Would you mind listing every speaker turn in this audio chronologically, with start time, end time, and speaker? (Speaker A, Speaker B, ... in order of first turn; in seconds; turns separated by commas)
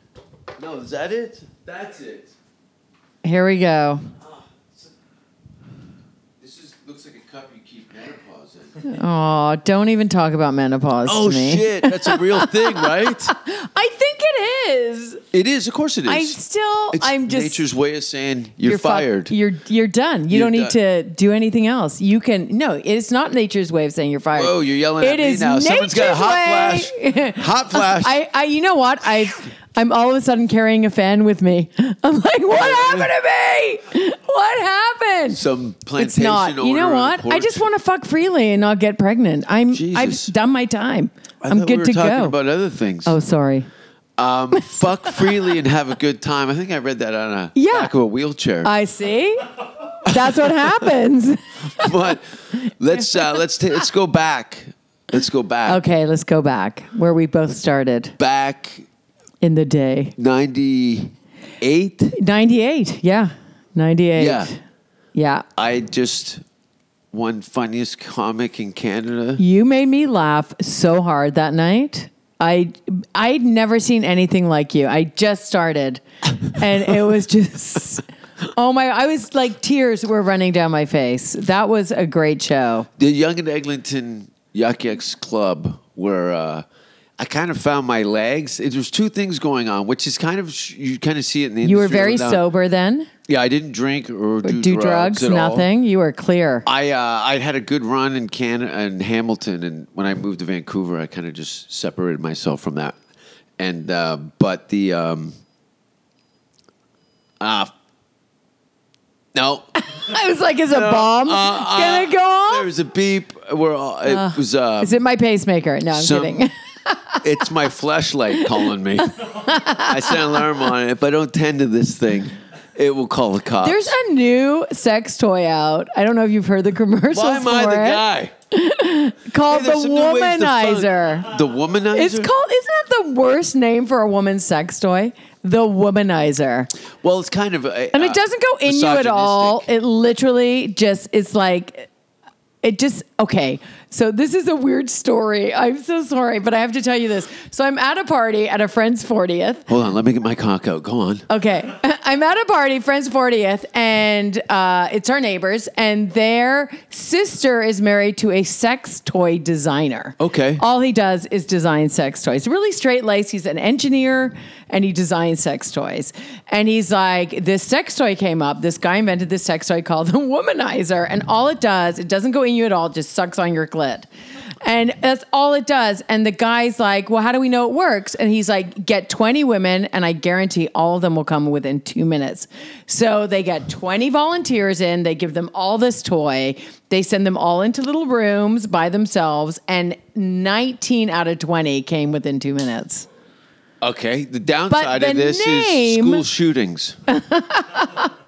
Speaker A: 0.6-2.3, Speaker B: 3.2-4.1, Speaker A: 6.4-8.8, Speaker B: 8.8-15.2, Speaker A: 11.1-13.3, Speaker A: 15.3-16.4, Speaker B: 16.1-17.6, Speaker A: 16.9-19.3, Speaker B: 18.6-35.4, Speaker A: 20.3-20.7, Speaker A: 24.3-28.2, Speaker A: 32.5-33.1, Speaker A: 35.3-37.6, Speaker B: 36.0-42.3, Speaker A: 39.7-40.3, Speaker A: 41.4-43.2, Speaker B: 43.0-43.7, Speaker A: 44.2-48.7, Speaker B: 44.5-44.8, Speaker B: 47.5-47.9, Speaker B: 48.6-49.5, Speaker B: 50.0-52.1, Speaker A: 50.0-50.7, Speaker A: 51.7-55.8, Speaker B: 53.0-53.4, Speaker B: 55.6-58.1, Speaker A: 58.2-58.9, Speaker B: 59.4-60.1, Speaker A: 60.2-62.1, Speaker B: 62.1-64.6, Speaker A: 64.2-64.5, Speaker B: 65.1-65.4, Speaker A: 65.5-66.4, Speaker A: 67.1-69.4, Speaker B: 69.4-82.9, Speaker A: 83.0-86.6, Speaker A: 87.2-92.4, Speaker B: 91.6-93.1, Speaker A: 93.3-95.7, Speaker B: 94.4-96.7, Speaker A: 96.6-103.0, Speaker A: 103.6-105.3, Speaker A: 107.4-107.7, Speaker A: 109.3-109.7, Speaker B: 109.9-112.7, Speaker A: 110.7-115.0, Speaker B: 114.1-117.2, Speaker A: 115.9-116.5, Speaker A: 117.2-123.9, Speaker B: 118.6-120.4, Speaker B: 123.6-131.3, Speaker A: 127.1-128.3, Speaker A: 129.4-132.3, Speaker B: 131.9-136.7, Speaker A: 137.0-139.7, Speaker B: 137.9-141.9, Speaker B: 142.6-149.7, Speaker A: 149.7-151.2, Speaker B: 151.3-174.1, Speaker A: 160.2-160.6, Speaker B: 174.6-193.1, Speaker A: 193.8-197.0, Speaker B: 194.7-196.2, Speaker B: 197.1-198.1